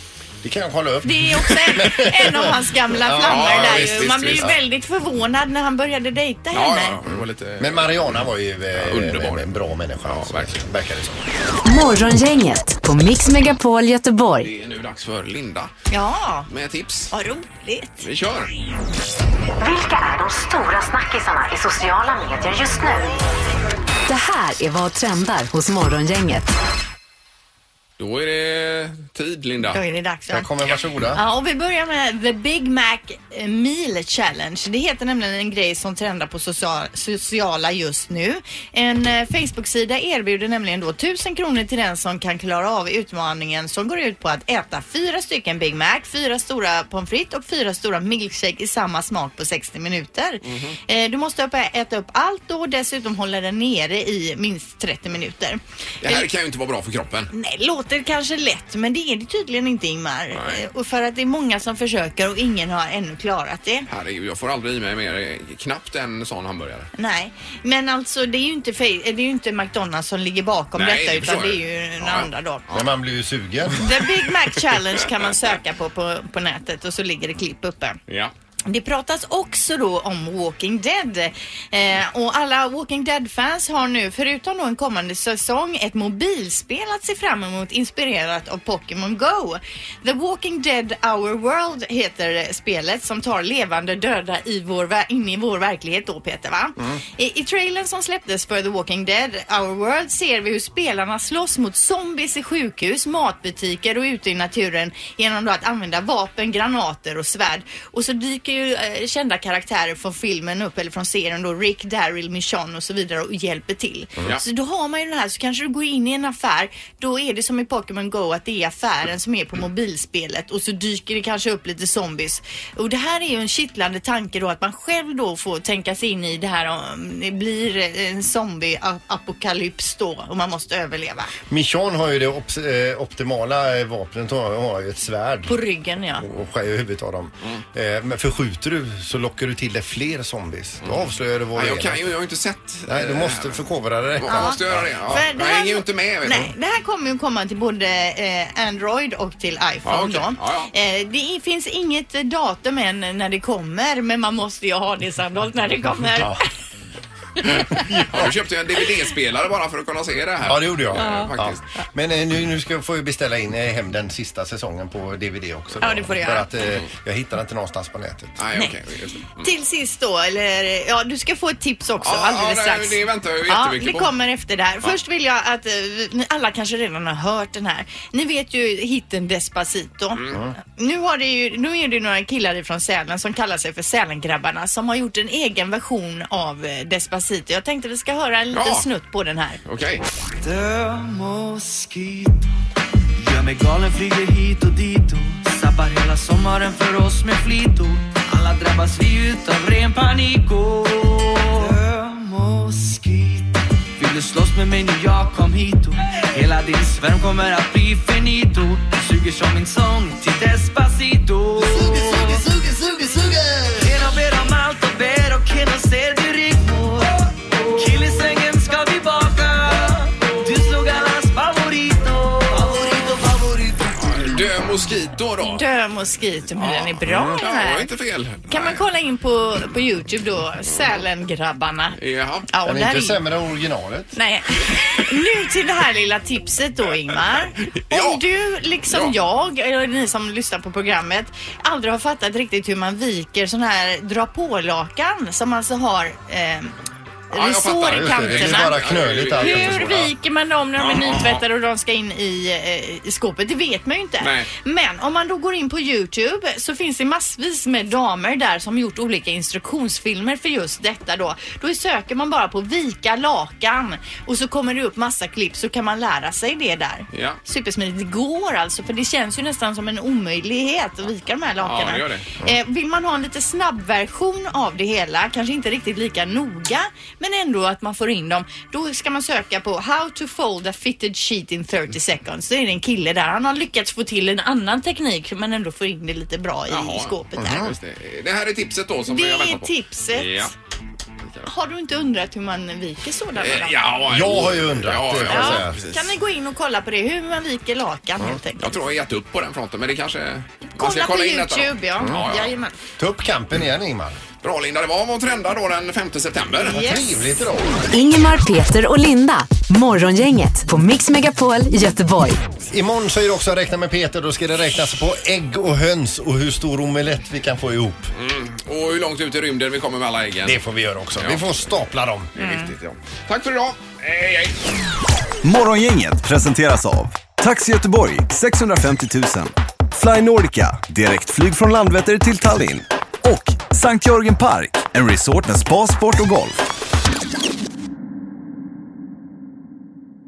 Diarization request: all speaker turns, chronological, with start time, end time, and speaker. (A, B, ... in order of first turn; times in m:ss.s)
0:00.4-0:04.6 A
0:01.0-0:07.0 B
0:03.2-0:04.5 C
0:06.5-0:08.2 C
0:07.1-0:11.2 A
0:08.8-0:09.5 C
0:10.0-0:10.5 C
0:11.6-0:14.5 D
0:14.4-0:15.7 C
0:15.9-0:16.5 B
0:16.5-0:17.1 C
0:17.1-0:18.1 B
0:18.0-0:18.5 C
0:19.6-0:23.1 D
0:24.1-0:26.5 D
0:28.0-0:29.8 C
0:29.7-0:30.4 B
0:30.3-0:31.2 A
0:31.1-0:56.2 B
0:50.4-0:50.8 C
0:56.0-0:57.3 C
0:57.3-1:03.9 B
1:00.3-1:00.6 C
1:03.9-1:06.9 C
1:07.0-1:12.6 B
1:10.8-1:12.8 C
1:12.7-1:13.9 A
1:13.8-1:18.0 B
1:18.7-2:11.3 B
2:11.5-2:15.6 A
2:15.5-2:16.2 B
2:16.2-2:22.0 A
2:20.8-2:26.5 C
2:22.9-2:24.9 A
2:24.3-2:36.3 B
2:29.8-2:30.7 C
2:37.4-2:41.6 C
2:40.4-2:48.3 A
2:41.0-2:41.3 B
2:45.8-2:46.5 B
2:48.4-2:49.5 C
2:49.4-3:09.6 B
2:52.0-2:54.1 C
3:08.5-3:08.8 C
3:09.6-3:10.0 C
3:10.4-3:12.5 E
3:13.2-3:32.5 E
3:32.6-3:33.4 F
3:33.8-3:37.1 E
3:37.7-3:44.4 E
3:44.0-3:45.6 C
3:45.4-3:47.9 B
3:46.6-3:48.8 C
3:48.5-3:52.0 B
3:52.0-3:52.5 C
3:52.5-3:53.2 B
3:52.6-3:54.2 A
3:54.1-4:06.7 B
3:57.9-3:58.2 C
4:07.3-4:47.6 B
4:07.3-4:09.9 C
4:07.9-4:10.1 A
4:10.8-4:11.4 C
4:14.2-4:14.5 C
4:27.1-4:27.4 C
4:31.6-4:32.3 C
4:46.7-4:50.5 C
4:47.4-4:47.8 A
4:49.1-4:50.5 B
4:51.4-4:53.8 B
4:53.4-4:56.1 C
4:54.1-4:55.8 A
4:55.3-4:58.6 B
4:58.6-5:02.5 C
5:00.7-5:02.7 B
5:03.0-5:04.2 A
5:04.4-5:06.8 C
5:06.6-5:07.1 B
5:06.7-5:07.8 A
5:07.9-5:12.4 D
5:12.7-5:18.1 A
5:18.1-5:20.6 C
5:20.4-5:22.3 A
5:21.2-5:21.6 C
5:22.4-5:24.5 C
5:22.4-5:22.7 B
5:25.4-5:36.5 F